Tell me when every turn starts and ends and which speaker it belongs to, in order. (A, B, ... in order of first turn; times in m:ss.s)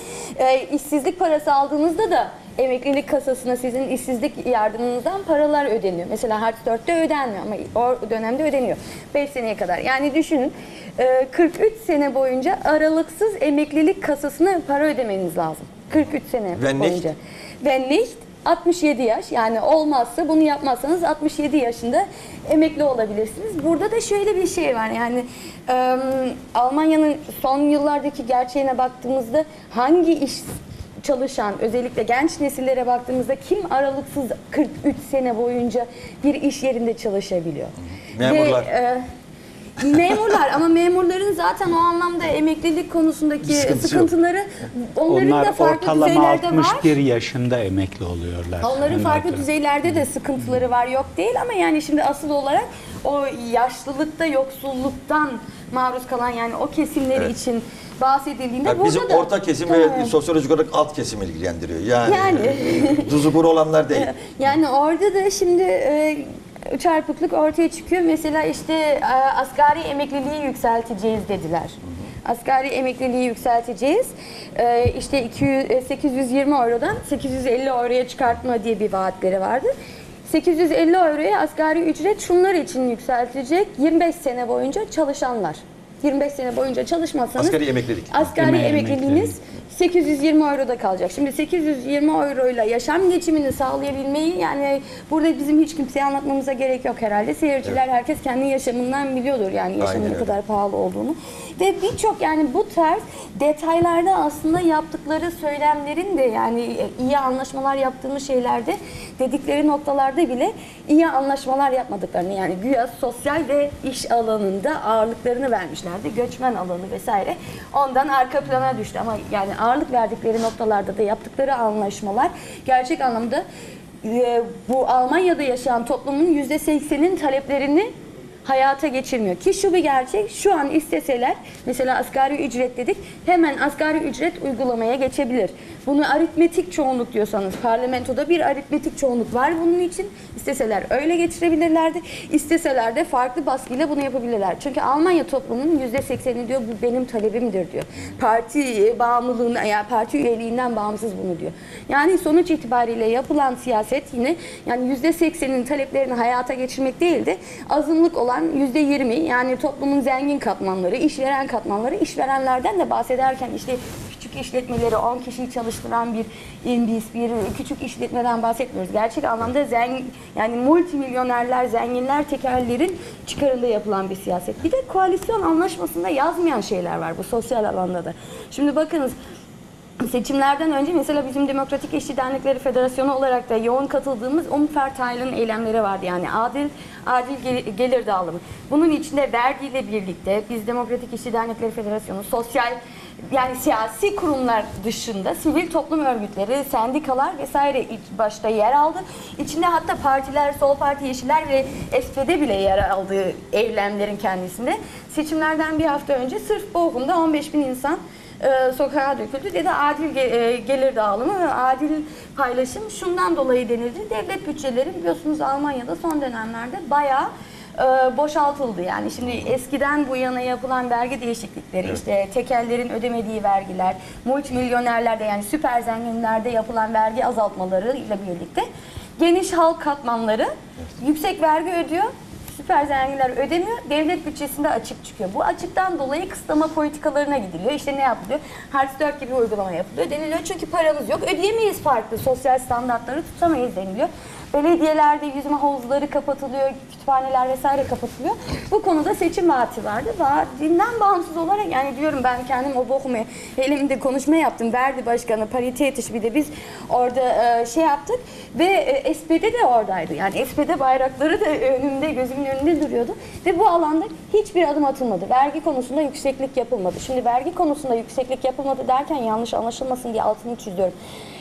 0:00.4-0:30.5 A
0:16.6-0:17.1 B
0:31.0-0:39.0 A
0:38.1-0:38.7 B
0:39.8-0:46.9 A
0:45.1-0:49.4 C
0:48.6-1:00.1 A
0:58.7-1:04.1 B
1:02.1-1:03.1 A
1:03.9-1:19.7 A
1:20.3-1:27.6 A
1:27.4-1:28.2 B
1:28.1-2:03.4 A
1:28.3-1:29.3 C
1:39.8-1:40.3 B
2:04.0-2:07.9 A
2:08.4-2:59.2 A
3:00.0-3:48.7 A
3:49.2-4:30.9 A